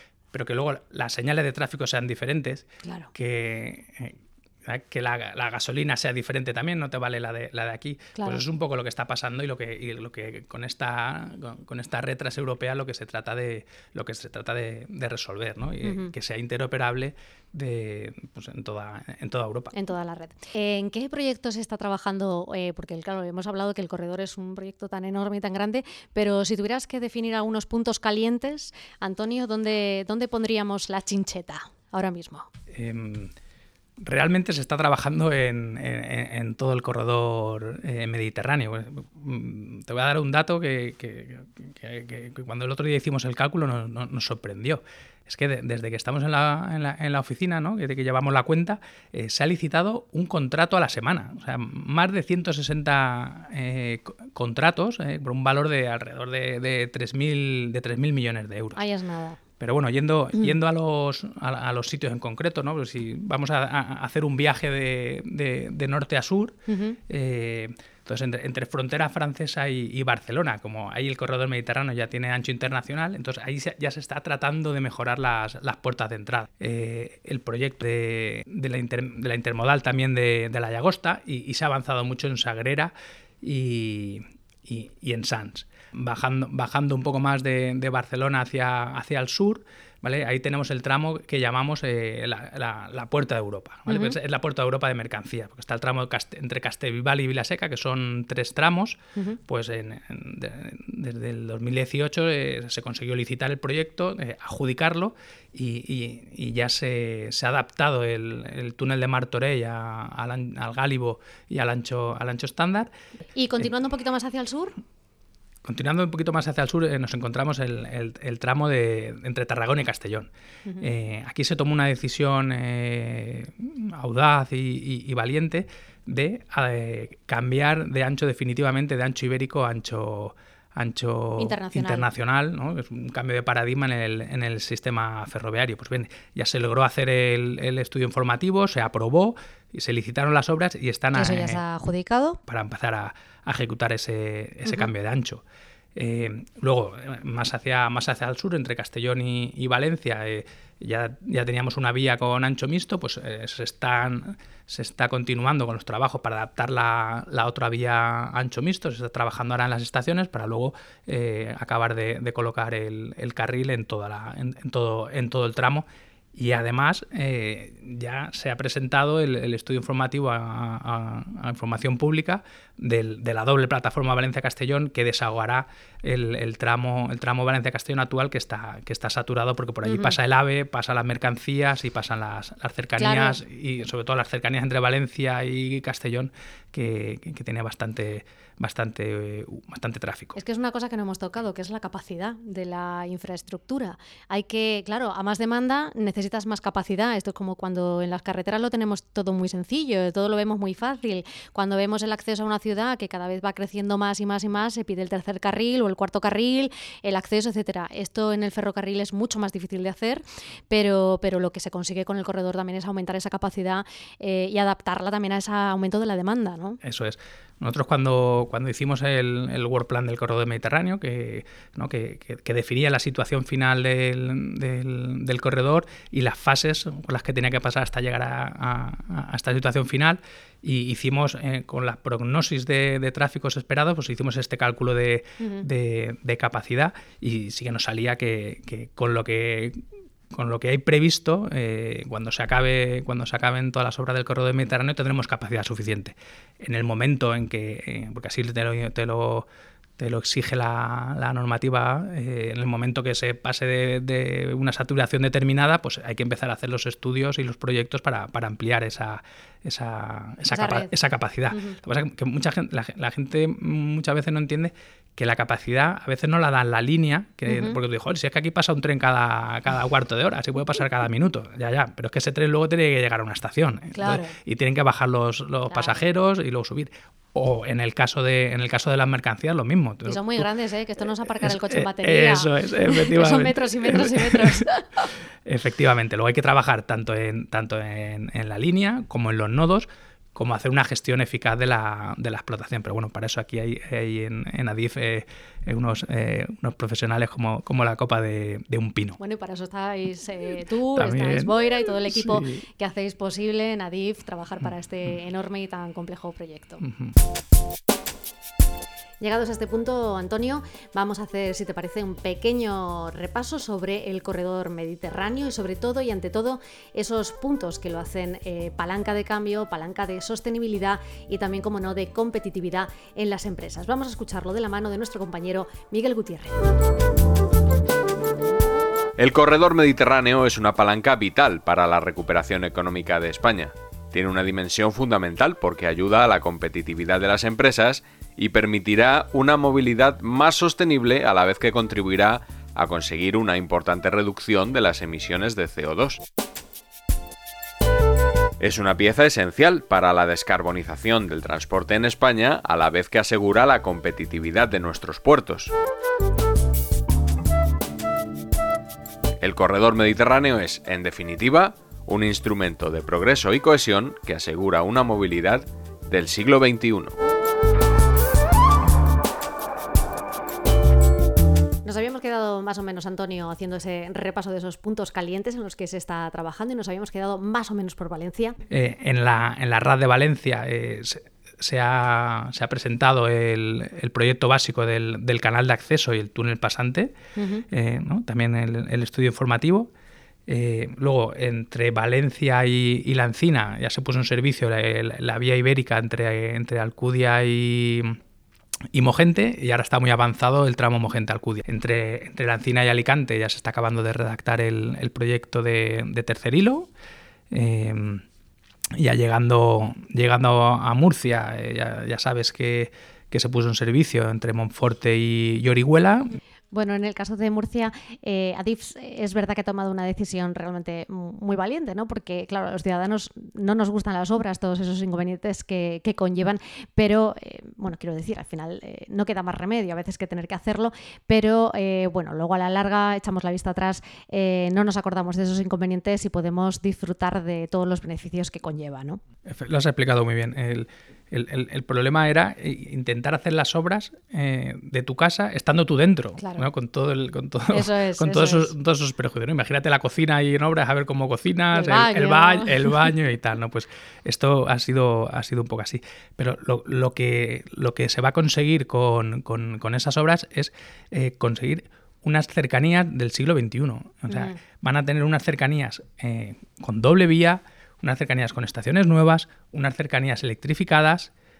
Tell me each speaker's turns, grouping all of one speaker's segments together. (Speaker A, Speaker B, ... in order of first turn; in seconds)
Speaker A: 0.3-19.7, 32.7-33.3, 34.0-58.8, 59.6-66.6, 67.1-112.9, 115.6-120.3, 120.8-141.6, 142.5-145.4, 145.9-190.3, 216.8-249.5, 250.0-280.5, 281.4-284.7, 285.4-299.2, 300.9-301.5, 302.1-302.6, 306.8-307.1, 378.7-387.1, 387.7-389.9, 390.5-398.2, 398.9-406.9, 407.5-408.2, 408.9-416.4, 439.4-471.3
Speaker B: 2.8-3.1, 8.2-8.4, 15.8-16.1, 19.7-32.5, 58.8-59.4, 66.7-67.0, 93.9-94.2, 113.3-114.7, 131.4-132.1, 141.1-142.4, 179.8-180.2, 183.0-183.4, 190.3-216.8, 235.4-235.7, 260.5-260.9, 261.5-261.8, 267.5-267.8, 273.9-274.3, 275.7-275.9, 280.1-285.1, 299.2-306.8, 309.2-326.6, 371.8-378.6, 387.4-387.6, 416.7-439.2, 446.4-446.7, 447.7-448.7, 451.7-453.1, 464.3-464.6
Speaker C: 329.2-346.2, 348.6-355.7, 359.4-367.1